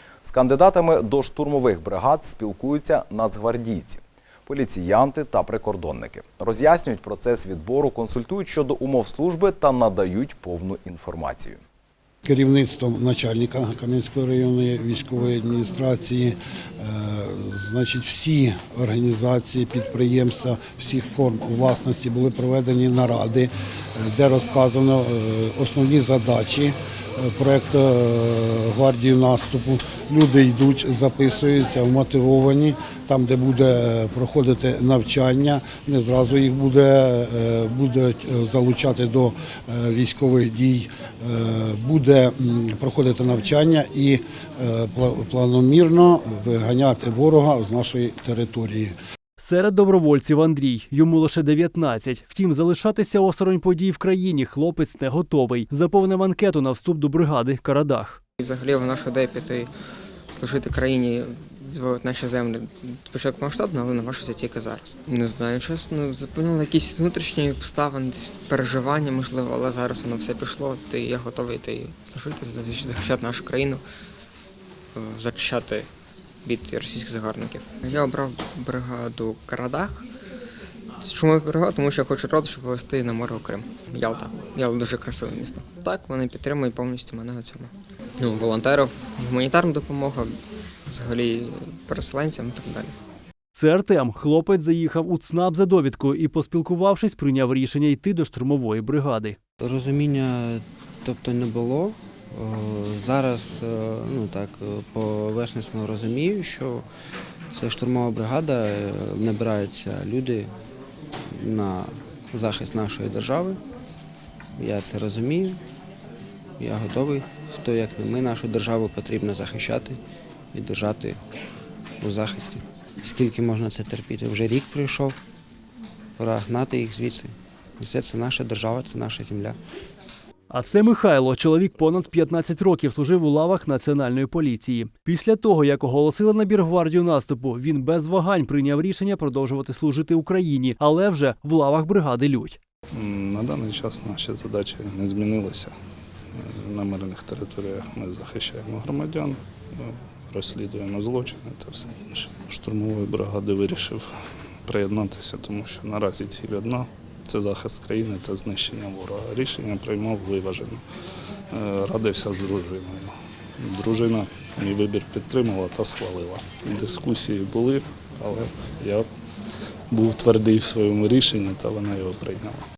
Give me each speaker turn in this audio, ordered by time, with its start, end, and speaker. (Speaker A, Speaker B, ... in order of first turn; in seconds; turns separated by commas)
Speaker A: 0.2-11.6, Speaker B: 12.2-48.9, Speaker C: 49.4-58.2, Speaker D: 58.4-59.7, Speaker D: 60.3-73.8, Speaker D: 75.0-75.9, Speaker D: 76.4-80.1, Speaker D: 81.0-90.4, Speaker D: 90.9-93.0, Speaker C: 93.5-99.4, Speaker E: 99.6-106.9, Speaker E: 107.5-110.5, Speaker E: 111.3-113.6, Speaker E: 114.5-115.6, Speaker E: 116.6-120.0, Speaker E: 120.5-121.2, Speaker E: 122.0-125.2, Speaker E: 126.2-129.6, Speaker C: 130.5-142.6, Speaker F: 142.9-145.7, Speaker F: 146.3-154.1, Speaker F: 154.7-160.8, Speaker F: 161.5-169.1, Speaker F: 169.9-172.6